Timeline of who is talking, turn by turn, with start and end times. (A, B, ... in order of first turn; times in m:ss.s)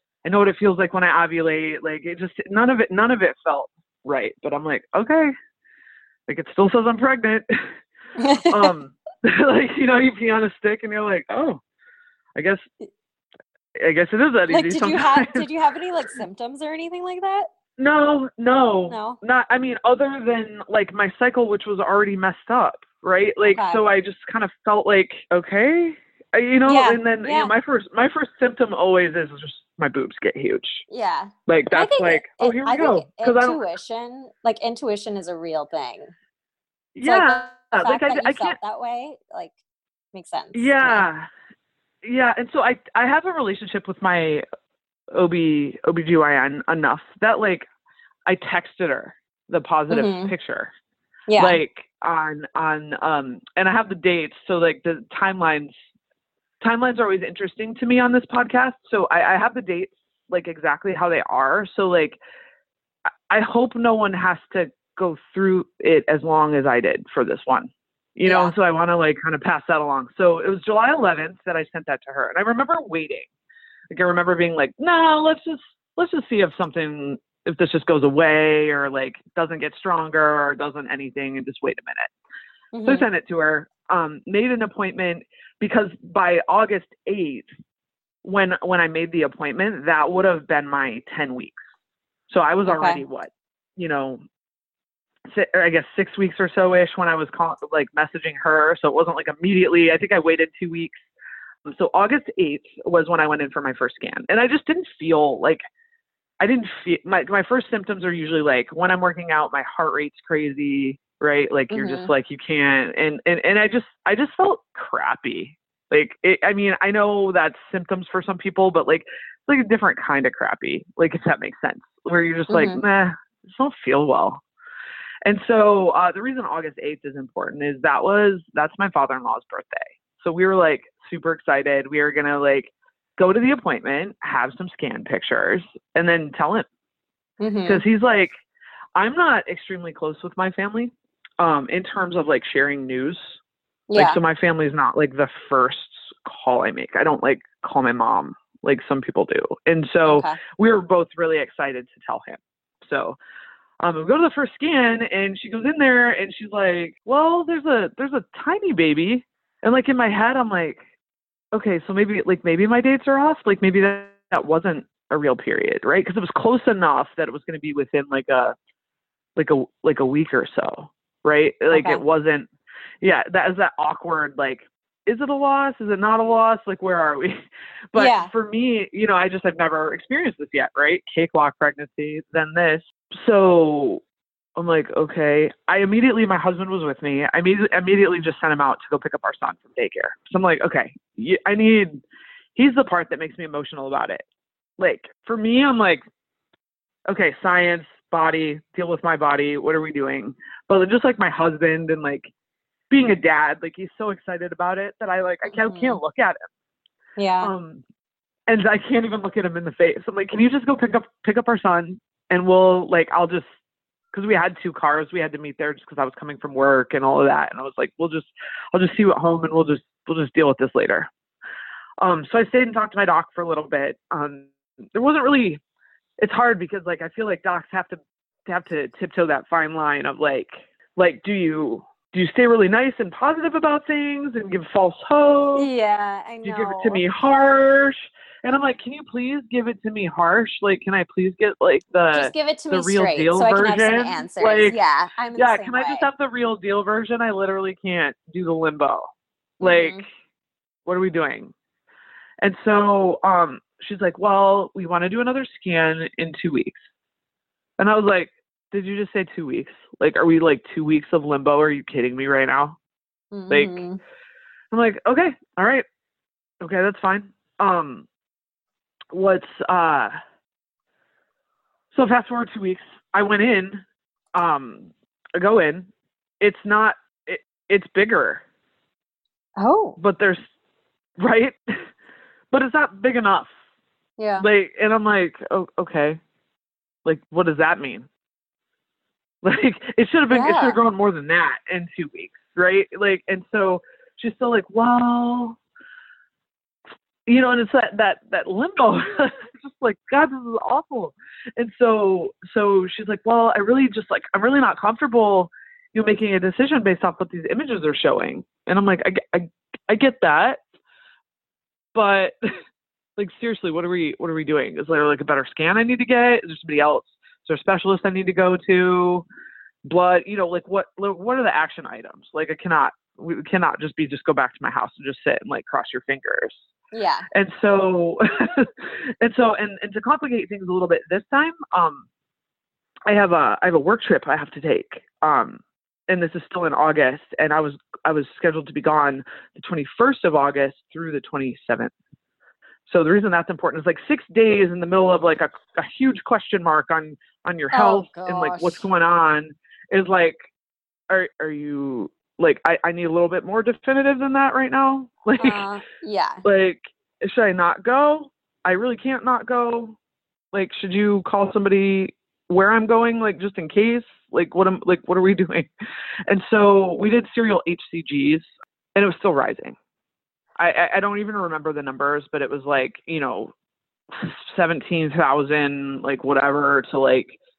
0:00.2-0:05.3 A
0:06.3-0:07.6 A
0:08.2-0:08.7 B
0:08.4-0:11.6 A
0:12.4-0:12.6 A
0:13.8-0:15.4 A
0:14.5-0:17.5 B
0:17.8-0:30.8 A
0:18.9-0:19.2 B
0:23.4-0:23.8 B
0:26.7-0:27.5 B
0:30.9-0:36.1 B
0:31.5-0:33.6 A
0:36.9-0:38.6 A
0:37.0-0:39.5 B
0:40.1-0:41.1 B
0:40.5-0:41.3 A
0:42.0-0:44.4 A
0:45.1-0:47.7 A
0:48.2-0:50.7 A
0:49.9-0:50.3 B
0:51.3-0:51.6 B
0:51.4-0:55.7 A
0:56.6-1:02.2 A
1:03.3-1:13.3 A
1:08.2-1:08.5 B
1:13.9-1:22.1 A
1:22.7-1:23.0 B
1:22.8-1:27.5 A
1:28.2-1:31.6 A
1:32.3-1:34.2 A
1:32.6-1:33.0 B
1:35.3-1:41.0 A
1:41.6-1:45.6 A
1:46.4-2:04.4 A
1:51.7-1:52.1 B
2:02.5-2:02.8 B
2:05.2-2:16.7 A
2:17.4-2:17.8 B
2:17.6-2:18.3 A
2:18.9-2:23.4 A
2:23.9-2:24.2 B
2:23.9-2:33.2 A
2:30.1-2:30.4 B
2:33.8-2:40.8 A
2:41.5-2:48.6 A
2:49.4-2:52.5 A
2:51.7-2:52.0 B
2:53.0-3:04.0 A
2:57.9-2:58.3 B
3:04.6-3:12.0 A
3:12.6-3:14.2 A
3:14.8-3:16.0 A
3:17.1-3:22.3 A
3:22.9-3:26.4 A
3:25.4-3:26.0 B
3:27.2-3:27.5 B
3:27.4-3:27.8 A
3:28.5-3:33.4 A
3:34.1-3:41.1 A
3:42.0-3:45.6 A
3:46.2-3:55.7 A
3:55.6-3:57.0 B
3:56.4-4:04.8 A
4:02.1-4:06.1 B
4:05.3-4:10.1 A
4:09.6-4:10.0 B
4:10.8-4:11.5 A
4:12.4-4:16.8 A
4:17.8-4:22.8 A
4:23.3-4:24.0 B
4:23.5-4:23.8 A
4:24.7-4:25.8 A
4:26.6-4:28.1 A
4:29.1-4:30.1 A
4:31.9-4:33.8 A
4:34.3-4:35.9 A
4:36.4-4:38.4 A
4:39.6-4:40.0 B
4:40.0-4:40.4 A
4:41.2-4:41.6 A
4:42.5-4:43.5 A
4:44.2-4:44.4 B
4:44.4-4:46.2 A
4:47.0-4:48.1 A
4:49.4-4:55.6 A
4:50.3-4:50.8 B
4:57.2-5:10.6 A
5:11.9-5:12.3 A
5:13.2-5:19.2 A
5:19.8-5:26.7 A
5:26.9-5:27.2 B
5:27.3-5:32.1 A
5:33.1-5:41.9 A
5:42.9-5:50.4 A
5:47.7-5:48.8 B
5:51.1-5:55.6 A
5:55.4-5:56.4 B
5:56.4-6:00.0 A
6:00.5-6:05.7 A
6:06.3-6:09.8 A
6:10.6-6:13.5 A
6:14.1-6:17.4 A